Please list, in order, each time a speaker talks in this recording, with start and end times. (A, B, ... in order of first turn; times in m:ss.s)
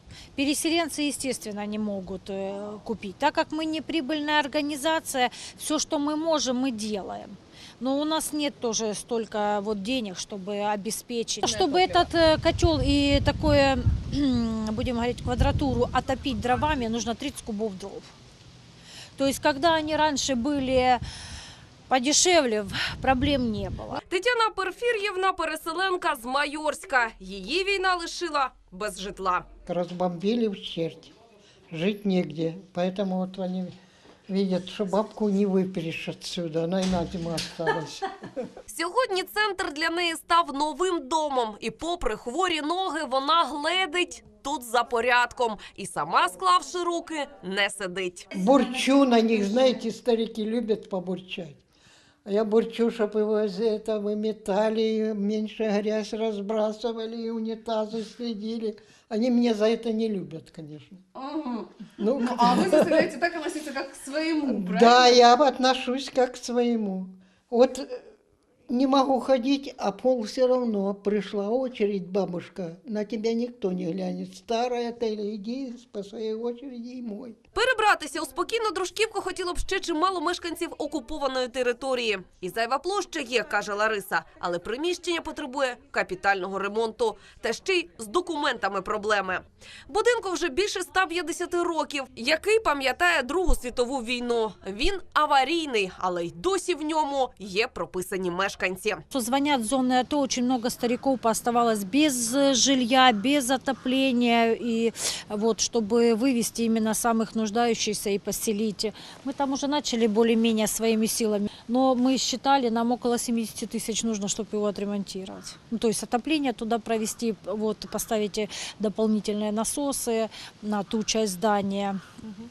0:00.4-0:18.1 A
0:11.6-0:11.9 B
0:19.2-0:21.0 A
0:21.9-0:24.0 A
0:24.1-0:29.5 C
0:29.7-0:31.1 D
0:31.7-0:33.7 D
0:34.3-0:38.1 D
0:38.7-0:48.3 C
0:48.3-0:51.6 D
0:52.2-1:01.0 D
1:01.2-1:05.1 B
1:02.0-1:03.1 D
1:04.5-1:08.0 D
1:08.7-1:17.4 D
1:17.6-1:39.0 C
1:39.1-2:02.0 A